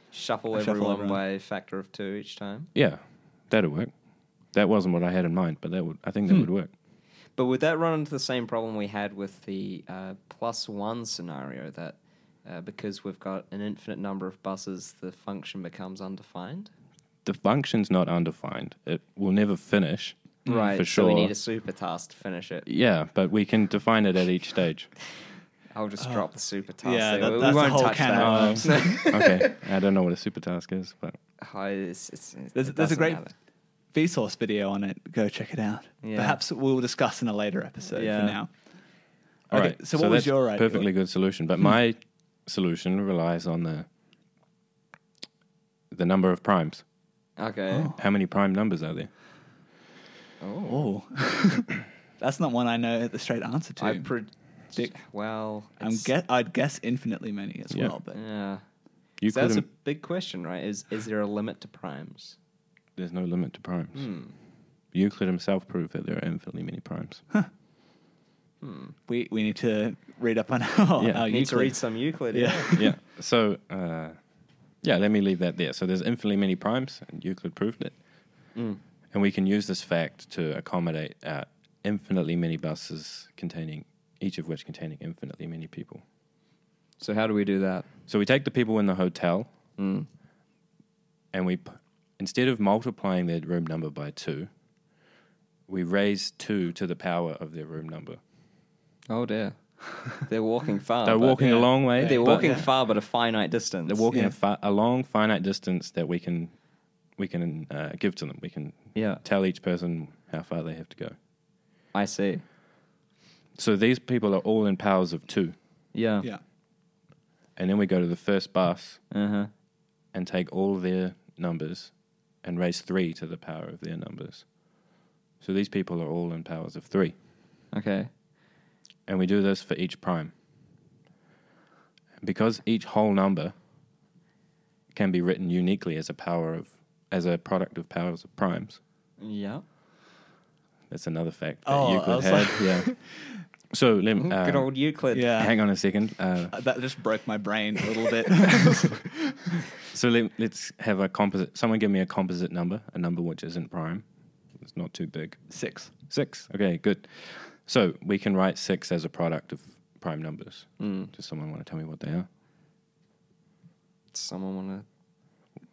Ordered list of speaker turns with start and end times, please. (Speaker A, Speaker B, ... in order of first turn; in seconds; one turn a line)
Speaker A: 0.1-2.7
Speaker B: 0.5-1.2
Speaker C: 2.7-3.9
Speaker C: 4.5-6.7
Speaker A: 7.4-16.7
Speaker C: 17.2-21.3
Speaker A: 20.5-22.7
Speaker C: 22.6-24.9
Speaker A: 25.7-29.5
Speaker B: 26.0-26.2
Speaker B: 26.8-29.1
Speaker C: 28.2-31.2
Speaker A: 31.4-33.3
Speaker B: 32.5-33.2
Speaker B: 33.9-38.5
Speaker A: 36.0-36.4
Speaker A: 37.9-38.4
Speaker B: 39.5-40.9
Speaker C: 39.5-43.9
Speaker C: 45.9-46.8
Speaker A: 47.4-47.9
Speaker C: 48.0-49.1
Speaker A: 50.4-50.9
Speaker B: 50.7-54.1
Speaker A: 53.8-56.1
Speaker B: 54.7-55.0
Speaker B: 55.8-58.2
Speaker A: 58.1-58.6
Speaker C: 59.2-59.7
Speaker A: 59.3-62.4
Speaker C: 63.0-64.2
Speaker A: 63.9-64.3
Speaker C: 64.9-67.2
Speaker A: 68.6-69.0
Speaker B: 69.1-72.9
Speaker C: 71.0-71.3
Speaker A: 71.3-72.7
Speaker C: 72.8-74.2
Speaker C: 74.8-78.0
Speaker A: 78.5-78.8
Speaker C: 79.1-86.0
Speaker A: 87.0-87.9
Speaker C: 88.1-89.5
Speaker A: 89.8-90.1
Speaker C: 91.3-94.5
Speaker C: 95.7-98.2
Speaker A: 99.1-104.1
Speaker C: 101.0-102.6
Speaker B: 101.4-102.7
Speaker C: 103.9-106.6
Speaker B: 104.1-104.3
Speaker C: 107.1-111.2
Speaker A: 109.0-109.2
Speaker A: 111.9-112.4
Speaker C: 113.5-115.5
Speaker A: 115.9-116.3
Speaker C: 117.6-119.0
Speaker A: 119.1-119.5
Speaker C: 120.1-124.5
Speaker C: 125.4-127.2
Speaker A: 127.7-128.1
Speaker C: 129.1-130.3
Speaker C: 132.2-133.5
Speaker C: 134.9-138.8
Speaker A: 139.2-139.6
Speaker C: 140.9-143.0
Speaker B: 141.7-143.2
Speaker C: 143.7-146.6
Speaker A: 144.2-145.4
Speaker B: 145.1-145.6
Speaker B: 146.5-149.4
Speaker C: 149.9-154.1
Speaker C: 154.6-162.3
Speaker B: 155.5-155.9
Speaker A: 160.8-161.1
Speaker A: 164.1-164.8